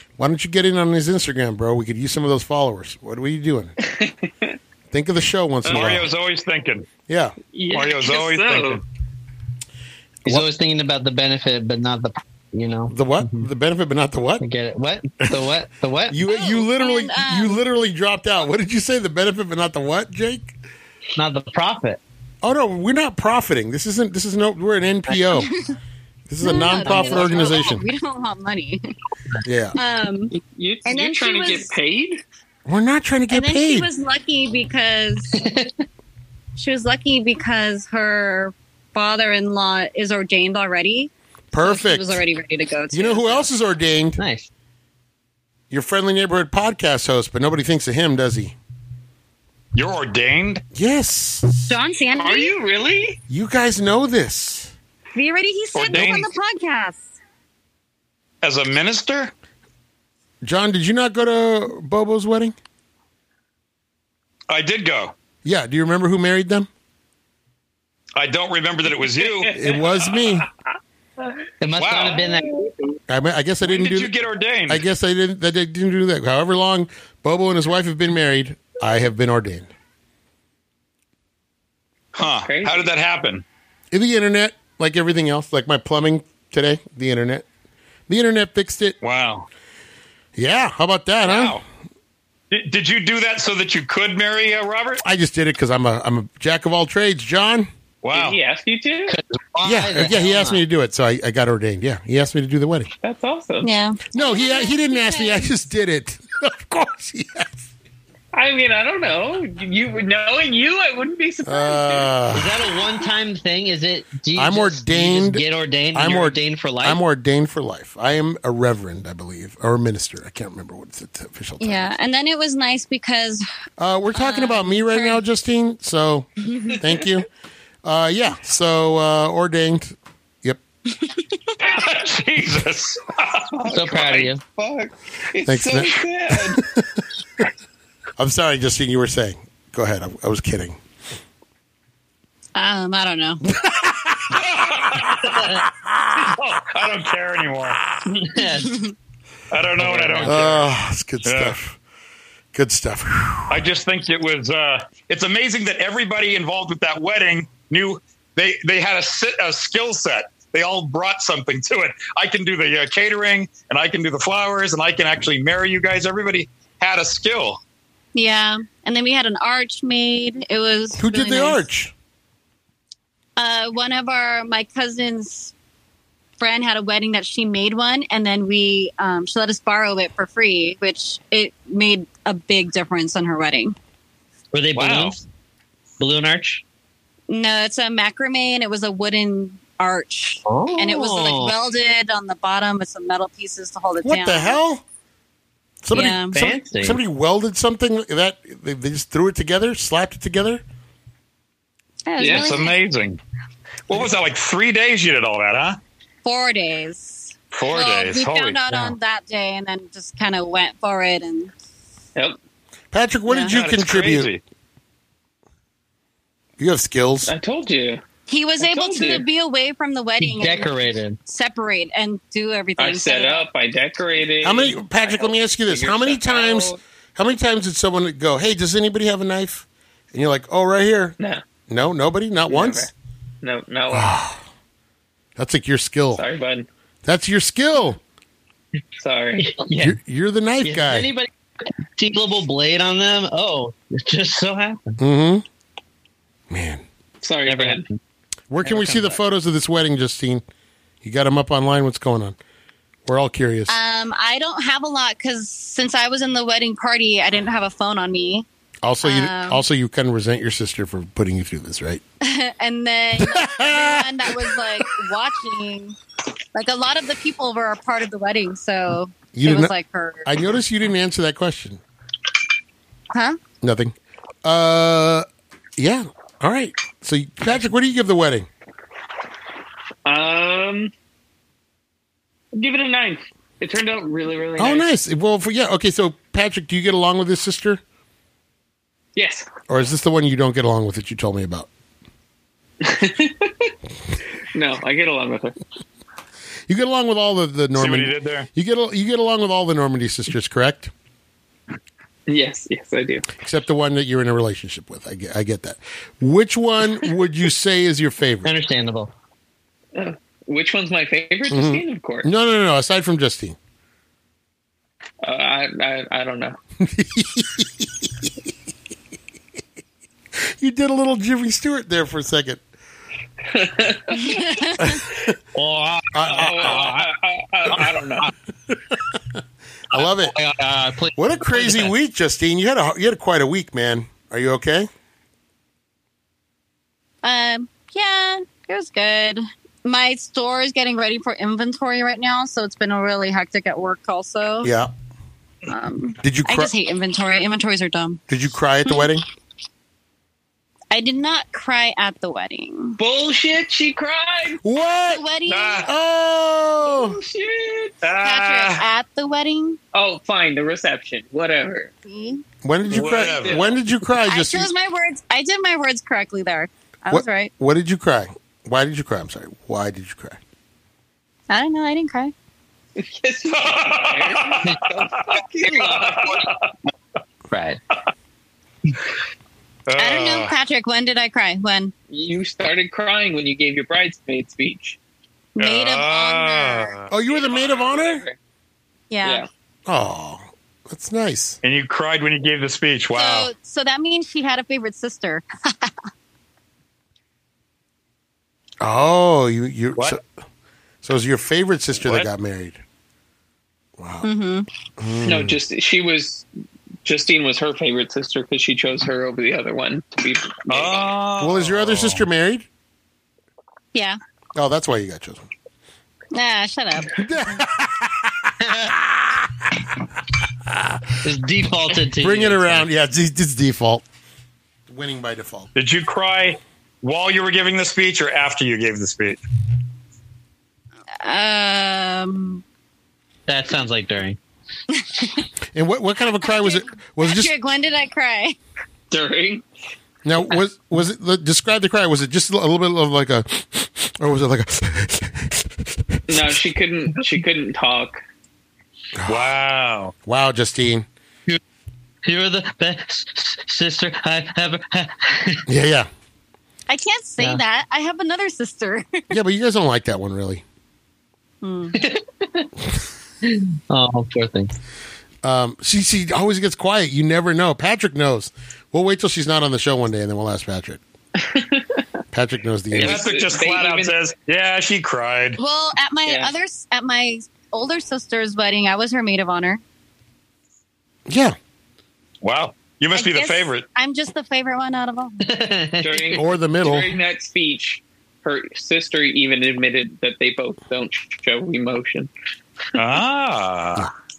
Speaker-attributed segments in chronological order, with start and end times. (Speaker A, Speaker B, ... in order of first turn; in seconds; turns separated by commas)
Speaker A: 0.2-3.7, Speaker B: 3.8-4.5, Speaker A: 4.9-6.1, Speaker B: 5.6-6.0, Speaker C: 5.7-6.9, Speaker A: 7.0-7.3, Speaker B: 7.5-8.8, Speaker C: 7.7-8.8, Speaker D: 10.2-13.4, Speaker A: 12.9-14.4, Speaker D: 14.4-16.2, Speaker A: 16.1-20.5, Speaker E: 16.3-17.6, Speaker D: 21.1-22.0, Speaker A: 22.4-25.5, Speaker E: 25.4-25.7, Speaker A: 26.3-27.8, Speaker E: 26.4-28.8, Speaker D: 26.5-27.6, Speaker A: 29.4-29.8, Speaker E: 29.8-31.7, Speaker B: 30.3-32.2, Speaker A: 32.6-33.9, Speaker E: 33.3-35.4, Speaker D: 35.4-35.7, Speaker E: 36.5-43.5, Speaker A: 41.5-42.2, Speaker A: 42.9-44.2, Speaker D: 44.2-44.5, Speaker A: 45.7-48.6, Speaker C: 49.7-50.6, Speaker A: 50.7-51.7, Speaker E: 51.6-52.5, Speaker B: 52.2-53.2, Speaker A: 53.3-54.7, Speaker E: 55.1-57.0, Speaker C: 55.7-56.3, Speaker C: 58.4-59.3, Speaker A: 60.4-62.5, Speaker C: 64.5-65.1, Speaker A: 65.4-66.7, Speaker C: 68.1-69.6, Speaker B: 69.0-70.2, Speaker A: 69.5-70.5, Speaker D: 71.6-72.7, Speaker C: 71.8-72.2, Speaker B: 72.1-72.6, Speaker A: 73.1-74.1, Speaker C: 73.7-74.8, Speaker A: 74.7-79.7, Speaker C: 82.1-83.4, Speaker B: 82.2-82.9, Speaker A: 83.9-87.5, Speaker A: 88.1-89.0, Speaker C: 89.0-89.5, Speaker A: 90.3-91.6, Speaker C: 92.5-95.0, Speaker A: 95.0-97.7, Speaker C: 98.0-98.4, Speaker B: 98.1-99.2, Speaker D: 99.1-100.6, Speaker A: 99.6-102.9, Speaker B: 103.0-103.7, Speaker E: 103.6-105.6, Speaker A: 104.1-107.6, Speaker B: 108.3-112.1, Speaker A: 111.4-112.6, Speaker D: 112.3-117.0, Speaker A: 114.3-121.9, Speaker E: 121.6-123.4, Speaker A: 123.8-127.3, Speaker E: 124.1-125.2, Speaker E: 126.5-126.8, Speaker A: 127.8-130.6, Speaker C: 131.6-133.7, Speaker B: 133.6-136.6, Speaker D: 133.7-134.4, Speaker A: 135.4-136.8, Speaker A: 138.2-140.8, Speaker E: 142.5-143.4, Speaker A: 143.4-144.5, Speaker C: 144.3-145.6, Speaker A: 145.0-145.3, Speaker D: 145.3-145.6, Speaker C: 146.2-147.8, Speaker D: 148.1-148.8, Speaker E: 148.6-148.9, Speaker C: 149.5-150.7, Speaker D: 149.8-150.4, Speaker A: 150.2-151.8, Speaker C: 151.2-151.5, Speaker A: 152.5-153.6, Speaker C: 153.5-167.6, Speaker E: 168.1-171.6, Speaker A: 171.0-171.9, Speaker E: 173.4-175.5, Speaker E: 176.4-183.8, Speaker D: 184.5-185.2, Speaker C: 184.7-185.2, Speaker D: 186.0-186.6, Speaker E: 187.3-194.6, Speaker D: 190.5-191.5, Speaker A: 194.0-194.8, Speaker A: 195.8-200.6, Speaker E: 195.9-196.3, Speaker D: 196.3-197.0, Speaker E: 202.1-202.7, Speaker B: 202.2-202.6, Speaker C: 202.2-203.2, Speaker C: 203.9-205.8, Speaker E: 206.2-211.5, Speaker C: 207.5-208.6, Speaker A: 212.9-214.3, Speaker C: 213.5-214.4, Speaker A: 216.6-217.3, Speaker B: 217.2-218.0, Speaker E: 218.3-220.7, Speaker B: 218.6-219.2, Speaker D: 220.2-221.2, Speaker E: 221.2-223.5, Speaker B: 222.8-226.8, Speaker A: 224.4-231.2, Speaker A: 231.7-232.9, Speaker B: 232.5-232.9, Speaker B: 233.4-234.1, Speaker A: 233.9-234.4, Speaker A: 235.4-236.2, Speaker B: 236.1-236.7, Speaker A: 237.0-238.0, Speaker B: 239.0-239.6, Speaker D: 239.4-240.0, Speaker A: 239.8-241.1, Speaker D: 240.6-241.3, Speaker D: 241.9-245.0, Speaker A: 245.0-245.4, Speaker A: 246.5-246.8, Speaker B: 247.2-247.8, Speaker D: 247.5-248.0, Speaker A: 248.5-250.4, Speaker D: 248.6-249.2, Speaker A: 251.0-252.4, Speaker A: 253.1-253.8, Speaker E: 253.7-258.4, Speaker A: 258.8-262.0, Speaker E: 259.0-259.6, Speaker E: 262.2-266.0, Speaker A: 263.2-264.8, Speaker E: 266.5-270.3, Speaker A: 269.3-269.7, Speaker A: 270.2-271.8, Speaker E: 273.1-273.4, Speaker A: 273.6-275.2, Speaker A: 275.8-278.5, Speaker B: 280.0-280.9, Speaker B: 282.5-284.9, Speaker A: 284.6-287.8, Speaker B: 289.1-289.4, Speaker A: 289.7-291.7, Speaker B: 292.8-293.7, Speaker B: 294.5-295.6, Speaker A: 296.7-300.9, Speaker C: 297.8-298.5, Speaker B: 302.3-303.3, Speaker A: 303.4-308.5, Speaker D: 308.4-309.1, Speaker B: 309.9-312.3, Speaker A: 311.5-313.6, Speaker B: 315.2-316.6, Speaker A: 316.8-318.3, Speaker A: 320.5-322.6, Speaker B: 323.5-324.5, Speaker E: 324.1-325.0, Speaker A: 324.8-325.3, Speaker D: 325.5-327.1, Speaker A: 326.1-326.9, Speaker B: 326.2-328.3, Speaker D: 327.7-328.3, Speaker A: 329.9-330.3, Speaker D: 329.9-331.9, Speaker A: 331.1-334.9, Speaker E: 337.2-344.7, Speaker A: 344.6-344.9, Speaker E: 345.7-348.2, Speaker A: 346.2-346.7, Speaker A: 348.3-349.2, Speaker E: 350.9-353.0, Speaker B: 353.0-354.6, Speaker A: 354.6-355.3, Speaker E: 355.1-355.9, Speaker C: 355.4-355.9, Speaker A: 355.8-357.2, Speaker B: 356.8-357.9, Speaker C: 358.0-358.8, Speaker E: 358.2-359.8, Speaker B: 359.9-361.9, Speaker E: 362.1-362.4, Speaker A: 362.6-364.7, Speaker C: 362.9-363.7, Speaker B: 362.9-363.7, Speaker E: 364.3-367.5, Speaker A: 367.1-370.4, Speaker E: 371.5-372.3, Speaker B: 372.9-376.5, Speaker C: 373.5-376.7, Speaker D: 377.5-377.8, Speaker C: 379.9-380.5, Speaker E: 379.9-381.9, Speaker B: 382.1-385.0, Speaker E: 385.6-386.9, Speaker C: 385.6-387.1, Speaker A: 387.1-388.2, Speaker B: 387.2-388.4, Speaker E: 389.1-389.4, Speaker A: 389.9-391.6, Speaker C: 391.6-393.5, Speaker E: 393.1-395.9, Speaker A: 398.8-400.2, Speaker A: 401.0-402.8, Speaker C: 402.0-402.3, Speaker A: 404.0-404.3, Speaker E: 404.2-404.7, Speaker A: 405.0-405.6, Speaker B: 405.2-406.5, Speaker B: 407.0-411.2, Speaker C: 410.7-412.2, Speaker A: 411.4-412.6, Speaker A: 414.5-415.4, Speaker E: 416.3-417.2, Speaker A: 417.2-419.7, Speaker D: 418.6-418.9, Speaker A: 420.6-421.2, Speaker D: 421.2-422.9, Speaker A: 422.1-424.0, Speaker A: 424.9-425.7, Speaker C: 425.7-429.4, Speaker E: 431.2-432.6, Speaker D: 433.5-434.4, Speaker E: 434.9-435.4, Speaker A: 435.7-437.5, Speaker E: 436.4-438.6, Speaker B: 439.1-439.6, Speaker A: 440.2-446.5, Speaker B: 446.3-448.2, Speaker A: 449.2-449.6, Speaker C: 449.3-450.1, Speaker A: 450.2-451.1, Speaker D: 452.2-455.6, Speaker A: 455.7-456.1, Speaker E: 456.9-459.3, Speaker A: 459.3-460.6, Speaker E: 461.6-462.0, Speaker D: 462.0-462.7, Speaker D: 463.4-464.7, Speaker A: 465.4-471.0, Speaker B: 471.4-472.0, Speaker A: 472.3-473.2, Speaker B: 472.9-474.1, Speaker C: 472.9-475.6, Speaker E: 475.6-479.8, Speaker B: 476.2-476.5, Speaker A: 481.3-481.6, Speaker C: 482.4-483.9, Speaker E: 483.1-485.5, Speaker D: 485.4-486.4, Speaker B: 486.0-492.3, Speaker A: 486.3-487.1, Speaker C: 492.9-494.1